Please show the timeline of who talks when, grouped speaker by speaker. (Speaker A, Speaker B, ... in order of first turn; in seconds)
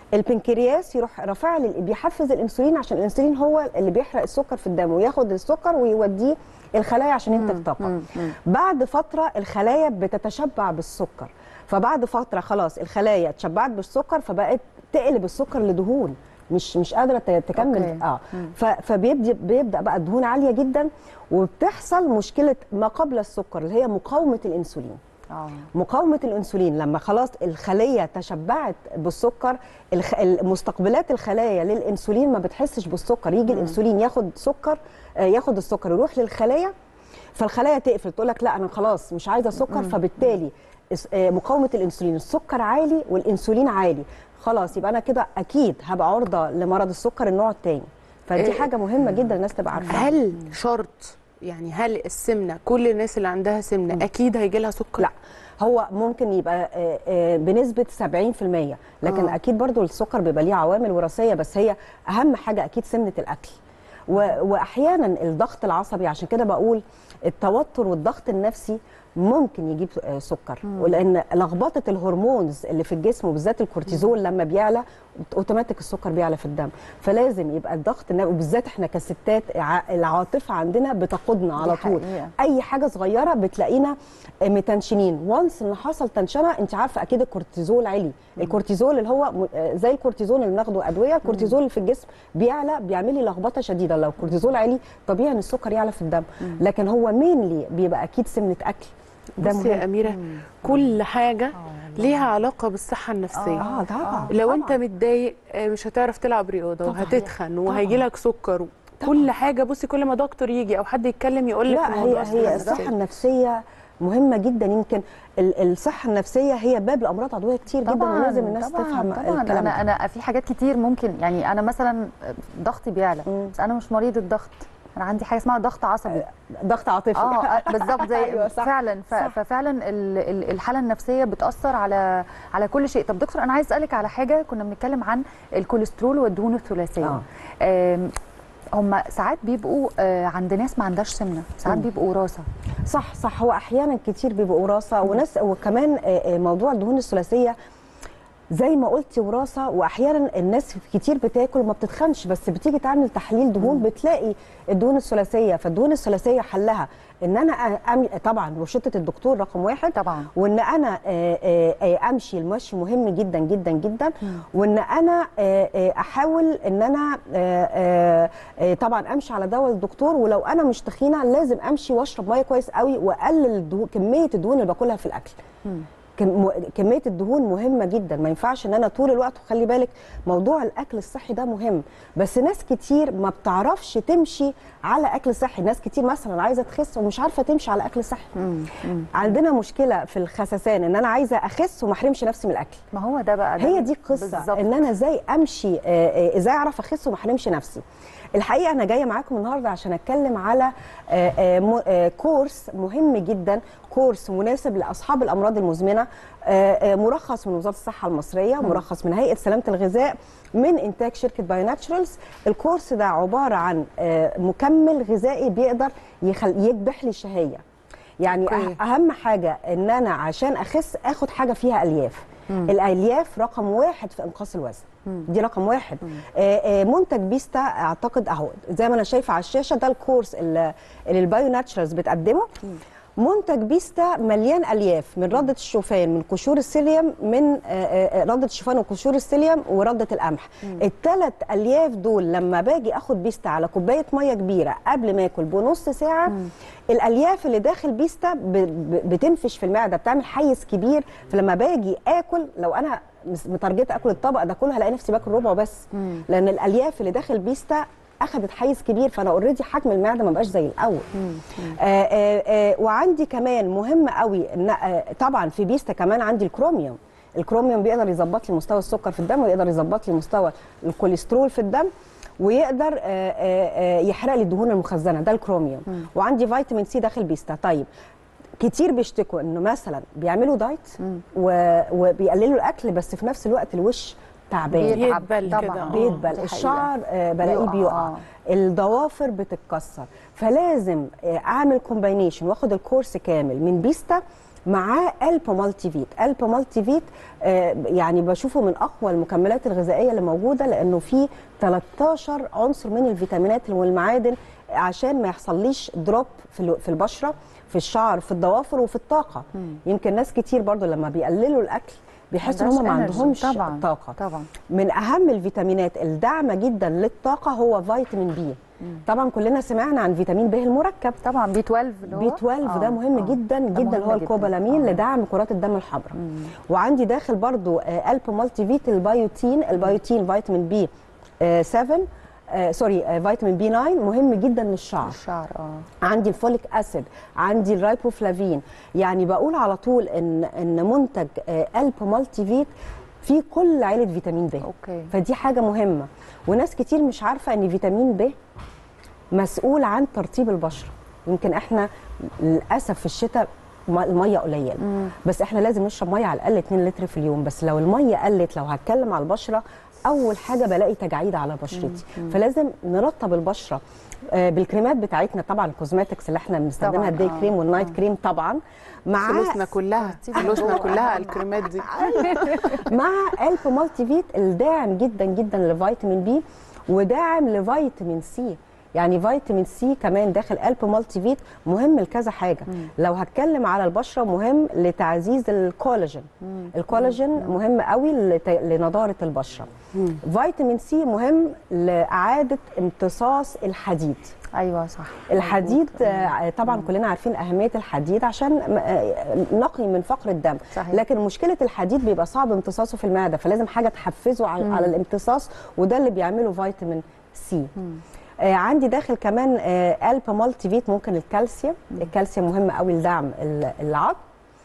Speaker A: 0.1-25.0, 25.7-36.7, 37.3-50.1, 55.0-63.6, 64.1-99.8, 103.5-104.8, 111.7-119.8, 123.3-123.5, 126.1-129.4, 142.9-147.5, 148.5-175.4, 176.2-188.3, 189.1-192.8, 193.6-197.8, 198.3-217.6, 218.2-232.5, 233.2-261.1, 261.6-277.9, 278.6-314.2, 314.7-321.2, 322.1-326.1, 326.7-330.9, 331.4-335.2, 336.0-342.7, 343.2-348.3, 349.3-351.9, 352.4-369.7, 370.3-389.7, 390.2-394.3, 395.3-407.7, 408.4-414.2
Speaker B: 7.4-8.1, 17.6-18.5, 25.3-25.6, 33.5-33.8, 39.7-40.0, 49.7-50.0, 70.7-71.0, 81.6-82.3, 91.2-91.5, 100.0-100.8, 101.5-102.3, 103.3-104.3, 106.9-107.9, 112.0-112.8, 117.8-126.2, 127.1-138.1, 138.8-142.4, 159.9-160.3, 188.3-189.2, 192.9-194.9, 255.9-256.2, 261.3-261.7, 284.7-286.9, 287.4-288.2, 312.4-314.5, 321.2-325.0, 326.1-326.5, 335.0-335.9, 344.6-345.1, 366.8-367.9, 370.0-372.8, 386.4-386.7, 394.5-396.2, 400.7-401.0, 404.6-404.9
Speaker C: 48.4-48.7, 49.9-55.1, 59.0-59.4, 99.4-103.7, 104.3-112.9, 218.4-218.8, 284.9-286.3, 369.2-372.5